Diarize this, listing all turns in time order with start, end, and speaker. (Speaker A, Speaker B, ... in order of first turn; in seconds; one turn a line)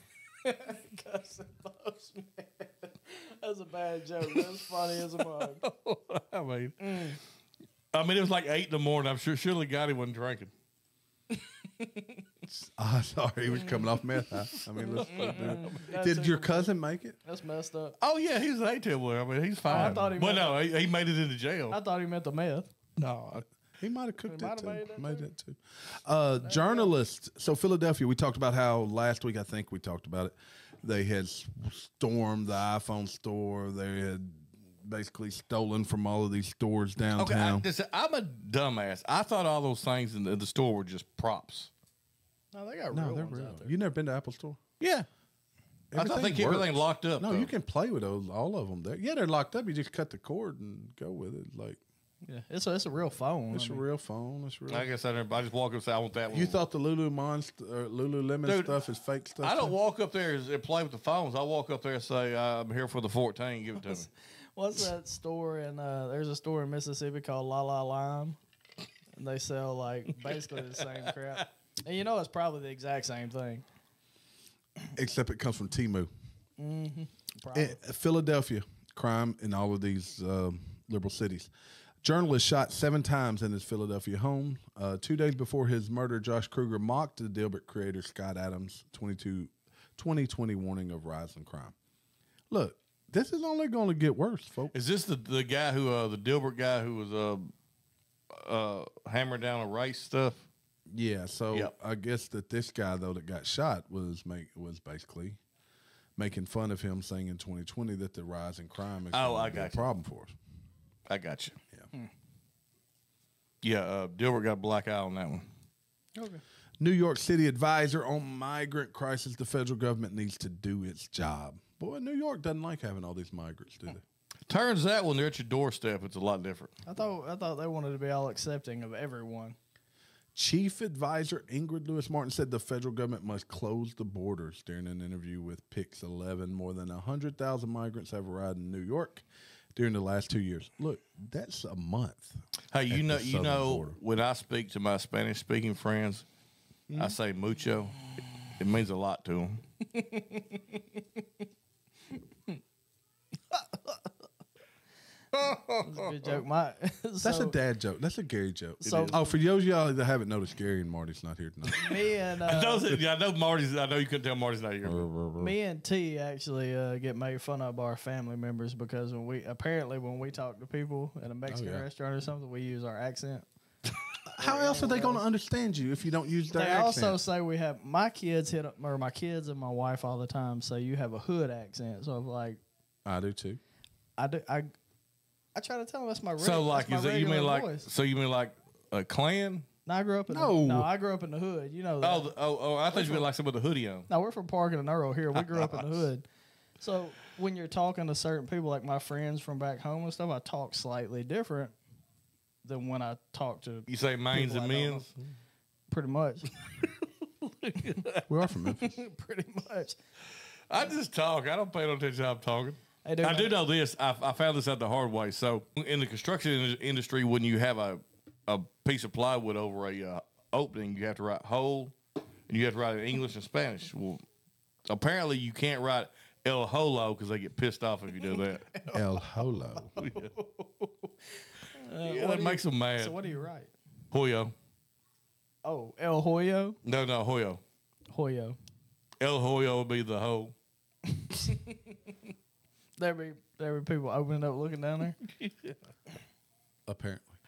Speaker A: 0.4-5.6
Speaker B: 5.0-7.2
Speaker A: 6.8-7.2
Speaker B: 7.9-10.5
Speaker A: 11.8-12.2
Speaker C: 12.6-17.2
Speaker A: 13.6-13.8
Speaker B: 14.7-15.8
Speaker A: 14.8-16.7
Speaker A: 17.2-18.0
Speaker B: 18.0-21.8
Speaker A: 19.7-20.6
Speaker C: 19.8-20.0
Speaker A: 21.7-22.7
Speaker B: 23.0-23.4
Speaker C: 23.8-37.7
Speaker A: 24.3-25.3
Speaker A: 26.4-26.9
Speaker B: 37.2-41.7
Speaker A: 42.5-43.7
Speaker C: 42.9-44.6
Speaker B: 44.8-45.1
Speaker C: 45.9-51.8
Speaker B: 46.0-47.5
Speaker A: 52.3-53.8
Speaker C: 53.5-54.9
Speaker B: 54.7-56.6
Speaker C: 56.3-59.8
Speaker B: 58.5-58.8
Speaker B: 59.4-64.1
Speaker A: 64.6-68.4
Speaker A: 69.2-73.7
Speaker B: 70.3-71.4
Speaker C: 74.9-76.1
Speaker A: 76.6-77.8
Speaker C: 77.5-81.5
Speaker C: 82.0-91.8
Speaker C: 92.5-94.8
Speaker B: 94.7-97.5
Speaker B: 98.3-100.4
Speaker C: 100.9-105.4
Speaker C: 106.2-110.3
Speaker B: 109.1-109.8
Speaker B: 111.1-111.6
Speaker B: 113.6-115.5
Speaker A: 116.2-116.4
Speaker C: 116.8-124.0
Speaker B: 124.5-126.7
Speaker A: 126.9-129.6
Speaker C: 130.3-139.2
Speaker C: 139.8-144.0
Speaker B: 142.7-146.2
Speaker C: 146.9-147.2
Speaker B: 147.0-147.9
Speaker B: 148.6-149.6
Speaker A: 149.9-150.6
Speaker A: 153.5-153.9
Speaker B: 155.3-156.4
Speaker A: 155.8-157.6
Speaker C: 157.2-162.0
Speaker A: 158.8-159.2
Speaker A: 161.7-163.0
Speaker B: 162.4-165.1
Speaker C: 164.8-165.5
Speaker A: 165.4-173.5
Speaker C: 171.5-171.9
Speaker C: 174.3-177.2
Speaker A: 174.4-175.2
Speaker A: 176.5-182.6
Speaker C: 183.1-183.6
Speaker A: 184.2-184.7
Speaker A: 185.6-187.9
Speaker B: 186.4-189.7
Speaker A: 189.9-192.3
Speaker C: 190.3-190.9
Speaker B: 192.0-194.1
Speaker A: 192.9-193.3
Speaker A: 194.1-196.2
Speaker B: 195.3-196.1
Speaker A: 196.8-201.8
Speaker A: 202.7-205.1
Speaker B: 203.9-205.1
Speaker A: 205.9-206.6
Speaker B: 207.4-208.2
Speaker C: 208.3-209.0
Speaker A: 208.7-210.0
Speaker B: 210.7-221.9
Speaker A: 213.1-213.6
Speaker B: 222.5-224.2
Speaker B: 224.9-228.7
Speaker C: 228.9-230.1
Speaker B: 230.0-230.3
Speaker A: 230.0-230.9
Speaker A: 231.8-233.7
Speaker B: 232.0-233.2
Speaker B: 234.1-234.5
Speaker A: 235.6-236.8
Speaker B: 236.8-237.6
Speaker A: 238.1-238.6
Speaker B: 239.2-240.6
Speaker A: 243.0-245.2
Speaker B: 245.3-245.7
Speaker C: 246.9-247.4